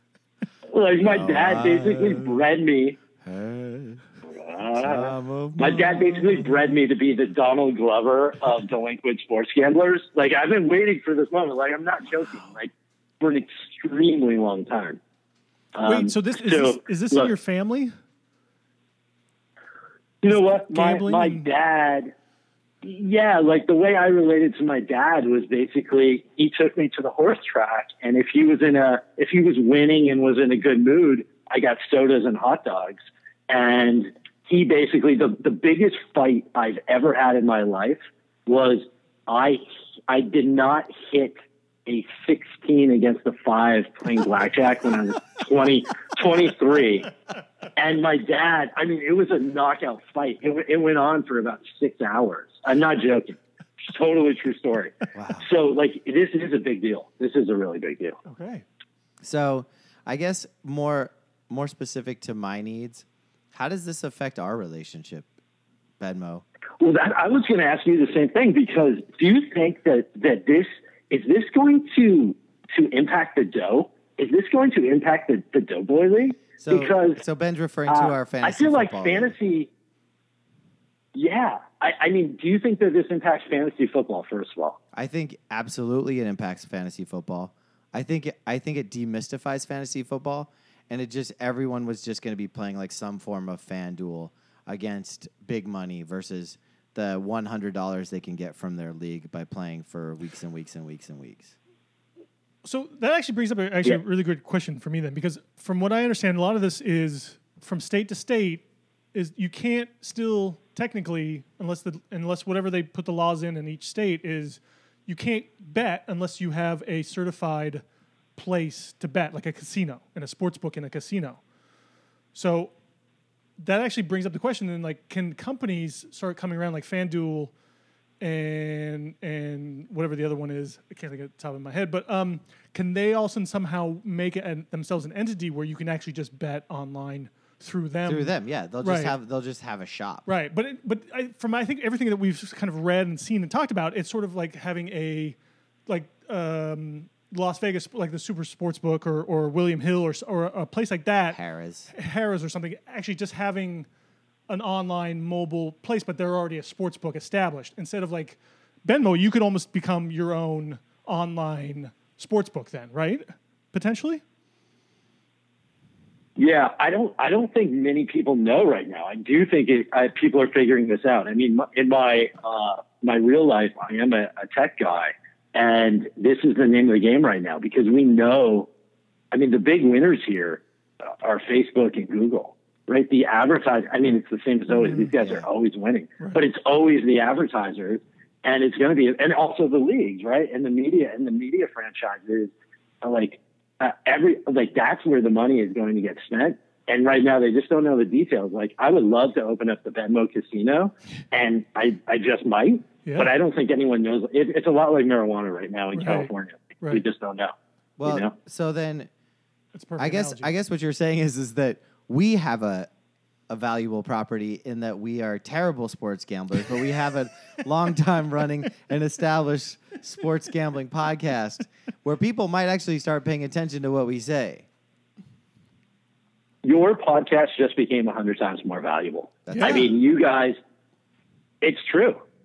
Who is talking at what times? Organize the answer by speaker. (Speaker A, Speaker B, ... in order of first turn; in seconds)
Speaker A: 0.7-3.0, 4.3-12.7, 13.2-15.0, 15.7-17.3, 20.2-22.1, 22.8-33.0, 33.5-41.3, 41.9-47.1, 47.8-58.2, 66.8-77.2, 77.9-79.7, 81.1-84.8, 166.4-178.7, 179.3-208.3, 226.6-230.6, 231.6-232.2
Speaker B: 1.0-2.4, 3.2-4.0, 4.7-6.4, 55.1-55.5, 59.2-65.3, 66.0-66.4, 76.6-79.3, 84.9-101.5, 138.1-140.3, 151.3-151.9, 185.2-185.5, 208.0-209.1, 210.0-212.9, 213.5-224.7, 229.5-229.9
Speaker C: 15.8-17.9, 20.3-21.5, 58.2-58.6, 102.6-117.8, 118.3-121.4, 122.3-122.7, 123.6-127.5, 128.2-139.1, 140.2-151.4, 151.9-153.9, 154.5-164.2, 203.0-203.3, 205.9-206.3, 209.7-210.5, 229.5-229.8